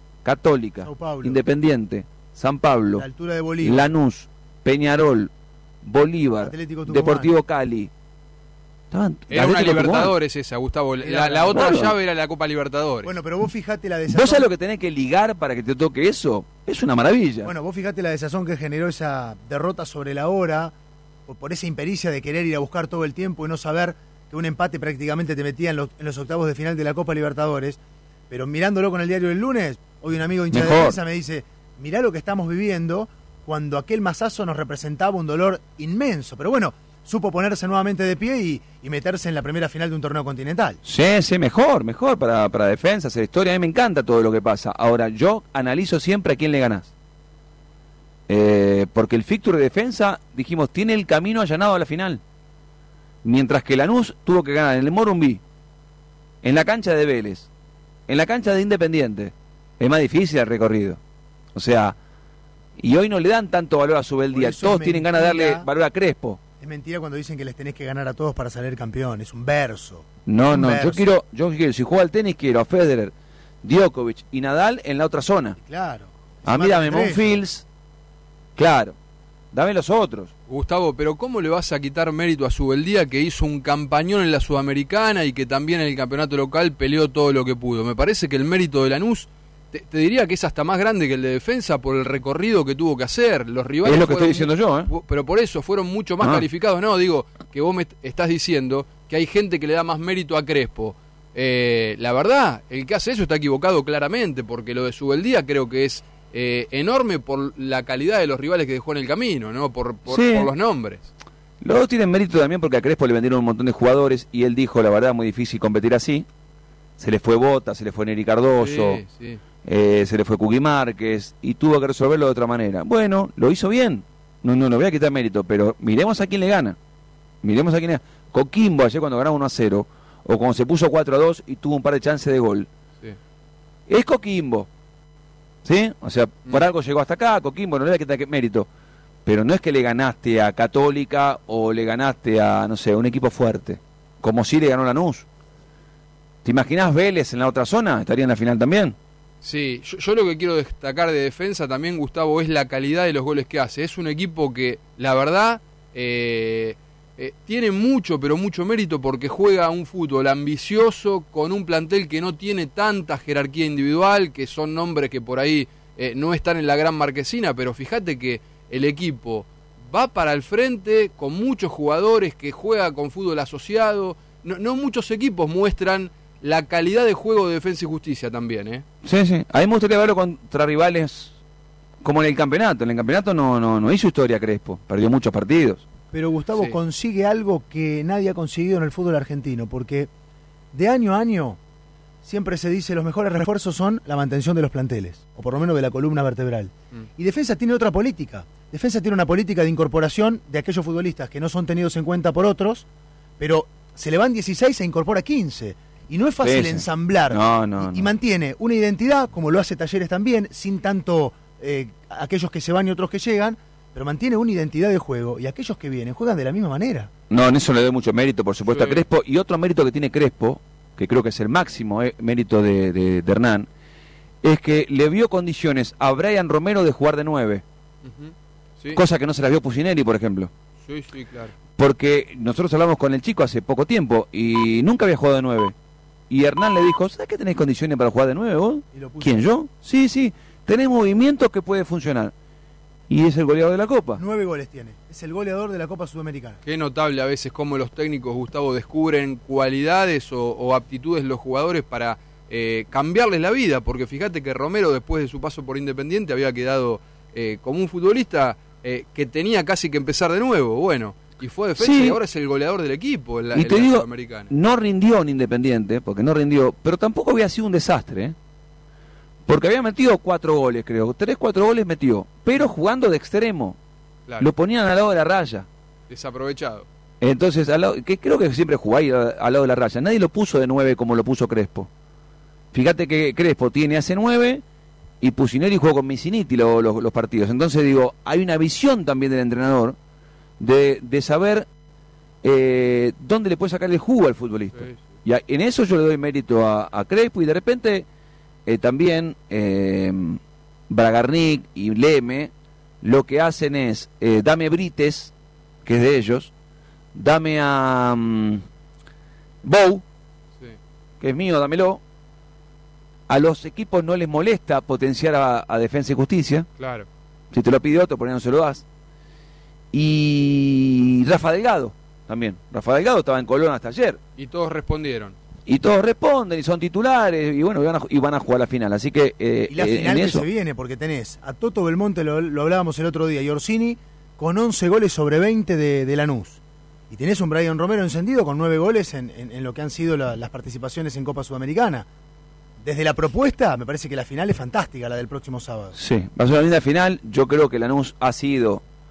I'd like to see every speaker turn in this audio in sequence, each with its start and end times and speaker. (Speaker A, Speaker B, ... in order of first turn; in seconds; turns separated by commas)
Speaker A: 0.2-3.1, Speaker B: 0.8-1.4, Speaker B: 3.0-3.9, Speaker A: 3.6-5.3, Speaker A: 5.8-7.9, Speaker B: 6.4-7.3, Speaker A: 8.9-10.1, Speaker C: 9.3-13.1, Speaker A: 11.0-11.9, Speaker B: 11.3-11.8, Speaker B: 13.0-14.4, Speaker A: 14.1-17.5, Speaker B: 17.4-20.7, Speaker B: 21.3-27.8, Speaker B: 28.3-40.8, Speaker A: 30.5-31.0, Speaker A: 40.8-46.9, Speaker A: 48.3-52.2, Speaker A: 53.2-55.4, Speaker A: 56.4-57.5, Speaker A: 58.1-61.0, Speaker A: 61.5-62.0, Speaker A: 62.8-66.4, Speaker B: 64.3-65.7, Speaker B: 66.6-71.0, Speaker A: 70.2-75.6, Speaker B: 75.6-77.4, Speaker A: 76.5-77.6, Speaker A: 78.6-78.9, Speaker A: 79.5-80.3, Speaker C: 80.5-111.1, Speaker A: 93.8-94.9, Speaker A: 110.1-110.5, Speaker A: 111.6-116.2, Speaker A: 117.0-119.0, Speaker C: 118.6-119.4, Speaker A: 119.6-126.8, Speaker A: 127.4-132.7, Speaker A: 133.9-134.7, Speaker A: 135.6-138.7, Speaker A: 139.2-145.2, Speaker A: 146.4-148.9, Speaker C: 149.4-178.8, Speaker A: 179.0-181.3, Speaker A: 182.0-185.8, Speaker B: 186.1-190.1, Speaker B: 190.7-191.6, Speaker B: 192.2-202.8, Speaker B: 203.4-217.1, Speaker A: 206.4-208.2, Speaker A: 217.3-223.7, Speaker C: 218.6-219.0, Speaker A: 224.4-227.6, Speaker C: 228.0-229.0, Speaker A: 228.9-230.5, Speaker C: 230.8-231.6, Speaker A: 231.7-235.7, Speaker A: 236.3-242.3, Speaker B: 238.9-239.4, Speaker A: 243.1-244.2, Speaker B: 244.2-246.6, Speaker C: 246.6-264.5, Speaker A: 261.8-262.2, Speaker A: 263.5-268.3, Speaker A: 269.5-273.8, Speaker A: 274.4-275.7, Speaker C: 276.1-276.9, Speaker A: 277.2-281.9, Speaker A: 282.7-284.6, Speaker A: 285.2-289.9, Speaker A: 290.6-291.6, Speaker A: 292.4-298.1, Speaker C: 294.7-295.1, Speaker A: 298.7-300.4, Speaker A: 300.9-302.5, Speaker A: 303.0-305.3, Speaker A: 305.8-306.5, Speaker A: 307.1-308.6, Speaker A: 309.6-310.0, Speaker A: 311.2-312.0, Speaker A: 313.3-316.6, Speaker C: 316.8-317.1, Speaker A: 317.5-318.8, Speaker A: 319.9-324.2, Speaker C: 324.4-325.3, Speaker A: 325.7-330.5, Speaker B: 329.7-336.6, Speaker B: 337.1-342.0, Speaker B: 342.8-345.9, Speaker A: 345.9-348.8